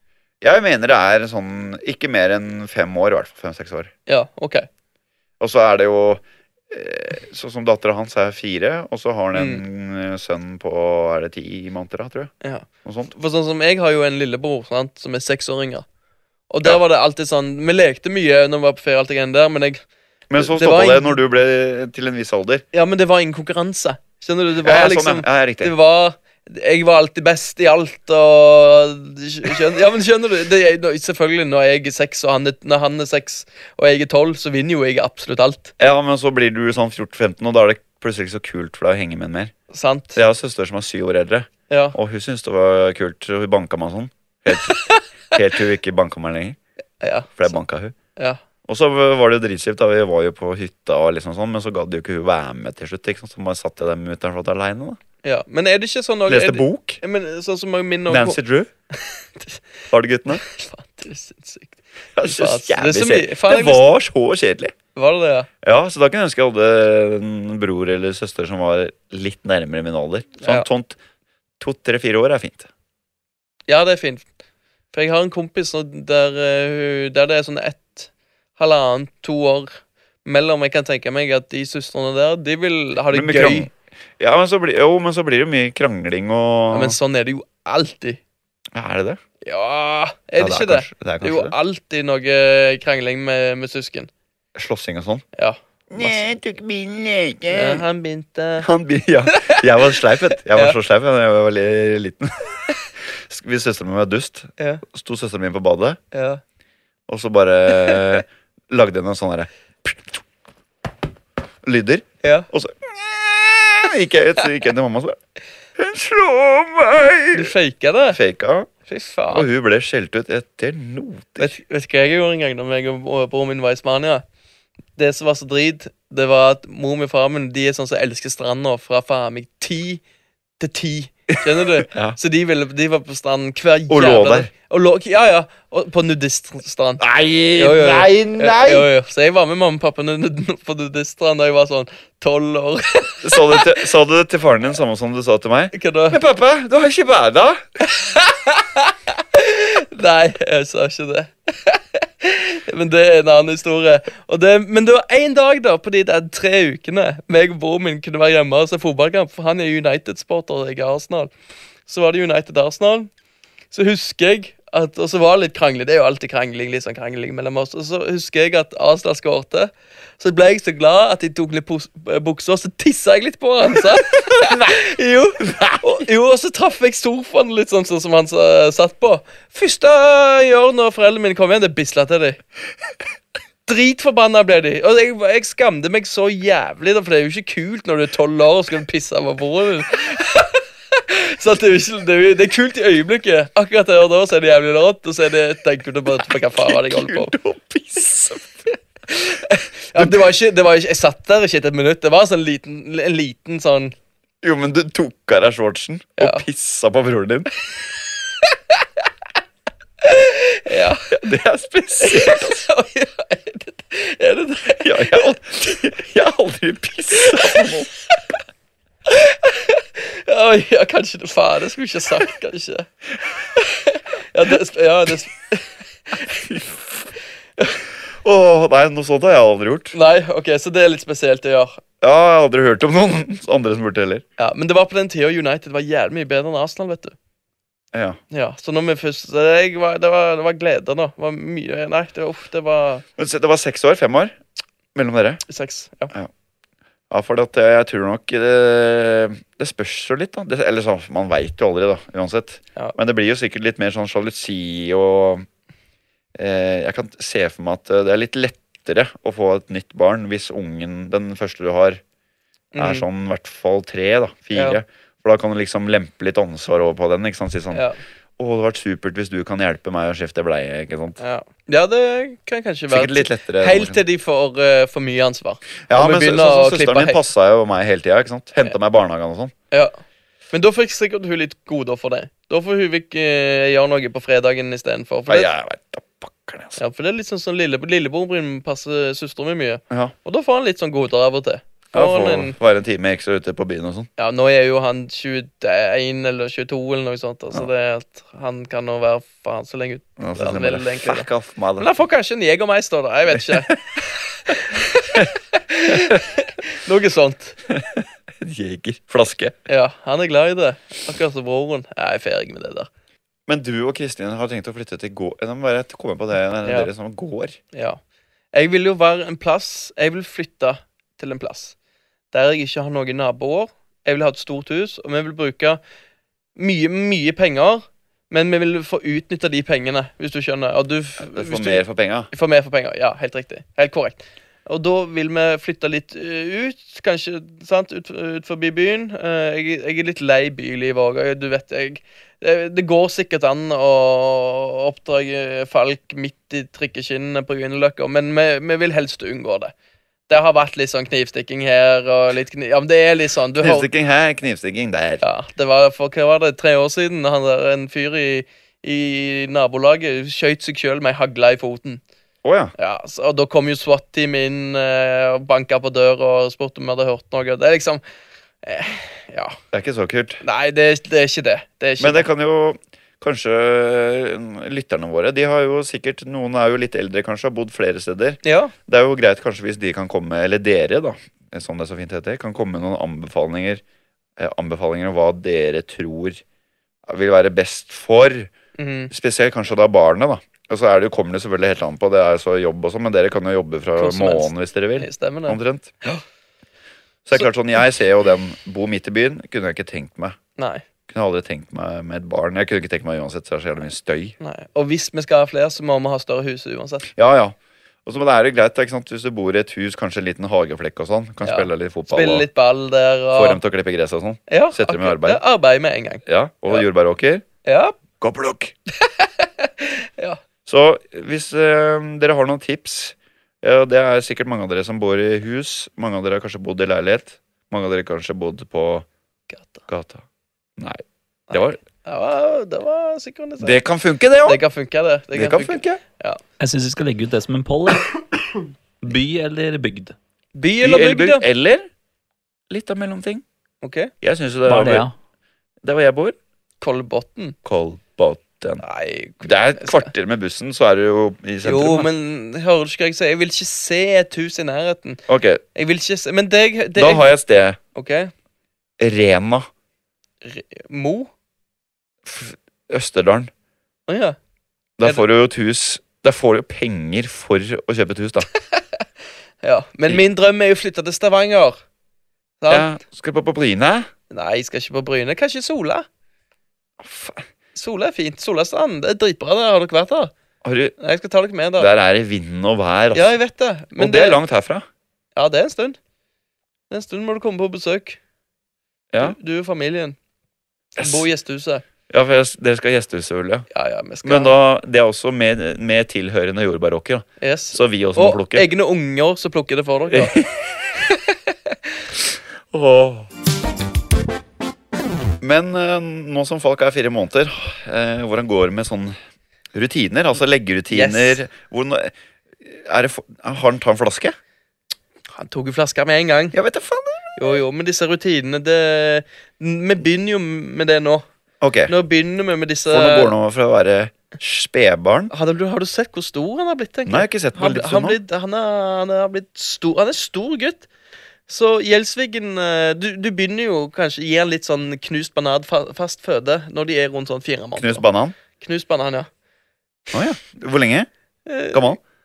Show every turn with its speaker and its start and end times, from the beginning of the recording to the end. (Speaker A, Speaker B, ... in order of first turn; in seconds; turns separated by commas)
Speaker A: 0.4-3.9, Speaker B: 4.1-4.7, Speaker A: 5.4-12.3, Speaker B: 9.3-9.6, Speaker B: 12.4-15.8, Speaker A: 12.8-13.1, Speaker B: 16.5-19.8, Speaker A: 20.3-22.6, Speaker B: 20.4-21.2, Speaker B: 22.7-35.7, Speaker A: 24.6-25.7, Speaker A: 35.8-39.5, Speaker B: 39.7-40.2, Speaker A: 40.1-44.8, Speaker B: 41.7-42.0, Speaker B: 44.6-45.0, Speaker A: 45.3-46.6, Speaker B: 47.0-47.5, Speaker A: 47.4-47.9, Speaker A: 48.7-55.0, Speaker B: 55.2-58.4, Speaker A: 56.3-57.0, Speaker A: 58.1-58.7, Speaker B: 58.9-59.6, Speaker A: 59.9-60.4, Speaker B: 60.3-63.8, Speaker A: 62.1-64.7, Speaker B: 64.9-65.5, Speaker A: 65.6-71.0, Speaker B: 70.4-70.7, Speaker A: 71.6-72.7, Speaker B: 73.7-74.2, Speaker B: 74.9-83.7, Speaker A: 83.1-87.0, Speaker B: 86.7-88.2, Speaker A: 88.7-89.2, Speaker B: 89.4-94.1, Speaker A: 90.4-91.5, Speaker A: 94.5-95.2, Speaker B: 95.3-96.3, Speaker A: 95.9-97.8, Speaker B: 97.5-98.7, Speaker A: 98.6-106.0, Speaker B: 99.3-100.0, Speaker B: 100.5-100.8, Speaker B: 104.6-104.8, Speaker B: 106.1-106.4, Speaker A: 107.1-110.2, Speaker A: 111.6-115.2, Speaker A: 115.8-117.5, Speaker B: 117.3-118.2, Speaker A: 118.1-118.7, Speaker B: 118.8-119.5, Speaker A: 119.3-121.5, Speaker B: 121.4-124.2, Speaker B: 125.0-130.0, Speaker B: 130.6-137.0, Speaker A: 131.3-132.2, Speaker A: 133.9-134.5, Speaker A: 137.0-138.9, Speaker B: 137.6-143.8, Speaker A: 143.2-147.6, Speaker B: 145.7-146.2, Speaker B: 147.8-161.3, Speaker B: 161.8-163.1, Speaker B: 163.7-182.4, Speaker A: 173.9-174.8, Speaker A: 175.4-175.8, Speaker B: 183.7-197.3, Speaker A: 196.3-198.7, Speaker B: 199.1-203.9, Speaker A: 199.9-200.3, Speaker A: 204.4-207.5, Speaker B: 206.2-206.4, Speaker B: 208.3-208.9, Speaker B: 210.0-211.2, Speaker A: 211.1-212.6, Speaker B: 212.0-215.8, Speaker A: 214.8-217.9, Speaker B: 217.2-217.8, Speaker B: 219.1-222.9, Speaker B: 223.4-226.4, Speaker A: 226.4-227.1, Speaker A: 228.1-229.9, Speaker B: 229.9-231.8, Speaker A: 232.0-234.2, Speaker B: 234.4-237.1, Speaker A: 237.9-238.2, Speaker B: 238.3-243.0, Speaker A: 243.2-244.3, Speaker A: 244.9-245.4, Speaker B: 245.4-246.1, Speaker A: 247.1-255.4, Speaker A: 256.4-262.0, Speaker B: 262.7-263.1, Speaker A: 262.8-267.8, Speaker B: 264.5-264.8, Speaker B: 267.7-268.0, Speaker A: 268.4-271.2, Speaker B: 271.2-277.2, Speaker A: 272.9-274.0, Speaker A: 275.9-279.5, Speaker B: 280.5-285.5, Speaker A: 285.3-286.8, Speaker B: 286.8-292.6, Speaker A: 291.9-294.1, Speaker B: 294.2-307.6, Speaker A: 300.2-301.9, Speaker A: 303.3-303.8, Speaker A: 305.9-306.2, Speaker A: 307.7-309.6, Speaker B: 309.7-312.9, Speaker A: 313.5-317.6, Speaker B: 316.6-316.9, Speaker B: 317.7-318.0, Speaker B: 318.5-321.7, Speaker B: 322.3-325.8, Speaker B: 326.6-349.7, Speaker A: 331.2-332.3, Speaker B: 350.3-353.9, Speaker A: 353.6-355.2, Speaker B: 355.2-362.0, Speaker A: 362.4-362.7, Speaker B: 362.8-368.0, Speaker B: 368.6-369.6, Speaker A: 369.7-370.4, Speaker B: 370.4-372.2, Speaker A: 372.0-383.8, Speaker B: 378.4-378.7, Speaker A: 384.4-386.4, Speaker A: 387.1-388.5, Speaker B: 388.8-389.1, Speaker A: 389.1-395.9, Speaker B: 394.0-396.2, Speaker A: 397.2-400.4, Speaker B: 400.6-400.8, Speaker A: 401.1-404.4, Speaker B: 404.4-407.1, Speaker A: 407.1-412.4, Speaker B: 411.4-413.6, Speaker A: 413.3-415.4, Speaker B: 414.5-416.8, Speaker A: 416.2-417.4, Speaker B: 417.6-418.0, Speaker A: 418.2-418.7, Speaker B: 419.0-420.4, Speaker A: 420.6-429.1, Speaker B: 429.5-429.8, Speaker A: 429.9-430.2, Speaker A: 430.8-431.8, Speaker B: 431.5-433.8, Speaker A: 433.6-434.6, Speaker B: 434.4-436.4, Speaker A: 435.3-436.0, Speaker C: 436.6-438.2, Speaker C: 439.0-440.1, Speaker B: 440.5-441.4, Speaker A: 440.8-441.9, Speaker A: 442.7-443.4, Speaker B: 443.8-444.1, Speaker A: 444.2-445.1, Speaker C: 444.6-445.1, Speaker A: 445.8-446.4, Speaker B: 446.8-447.6, Speaker A: 447.6-448.8, Speaker B: 448.8-450.1, Speaker A: 449.4-452.1, Speaker B: 451.6-455.2, Speaker A: 455.3-455.6, Speaker B: 455.7-457.3, Speaker A: 456.9-457.8, Speaker B: 457.9-458.3, Speaker A: 459.0-459.7, Speaker B: 460.4-461.3, Speaker A: 462.2-463.5, Speaker B: 464.1-464.4, Speaker A: 465.0-468.5, Speaker B: 468.5-469.0, Speaker B: 469.6-471.8, Speaker B: 472.6-472.9, Speaker A: 472.7-474.1, Speaker B: 474.3-476.1, Speaker A: 477.0-477.4, Speaker B: 477.7-480.3, Speaker A: 480.6-480.9, Speaker B: 481.0-481.9, Speaker A: 481.8-483.4, Speaker B: 483.1-484.4, Speaker A: 483.9-484.9, Speaker B: 485.4-486.0, Speaker B: 486.9-488.2, Speaker B: 489.2-490.2, Speaker A: 490.9-491.2, Speaker B: 491.0-491.8, Speaker A: 492.1-493.6, Speaker B: 493.7-494.5, Speaker A: 494.2-498.6, Speaker B: 497.4-500.4, Speaker A: 500.1-500.6, Speaker B: 501.1-501.8, Speaker A: 502.7-503.3, Speaker A: 505.4-509.1, Speaker A: 509.7-514.4, Speaker B: 510.9-511.4, Speaker B: 515.3-516.5, Speaker A: 516.5-517.3, Speaker B: 517.4-521.2, Speaker A: 521.6-521.9, Speaker B: 521.9-523.3, Speaker A: 522.9-525.3, Speaker B: 525.3-530.9, Speaker A: 527.0-528.2, Speaker B: 531.5-539.3, Speaker A: 537.8-538.4, Speaker A: 540.1-541.1, Speaker B: 541.5-542.0, Speaker A: 541.7-542.0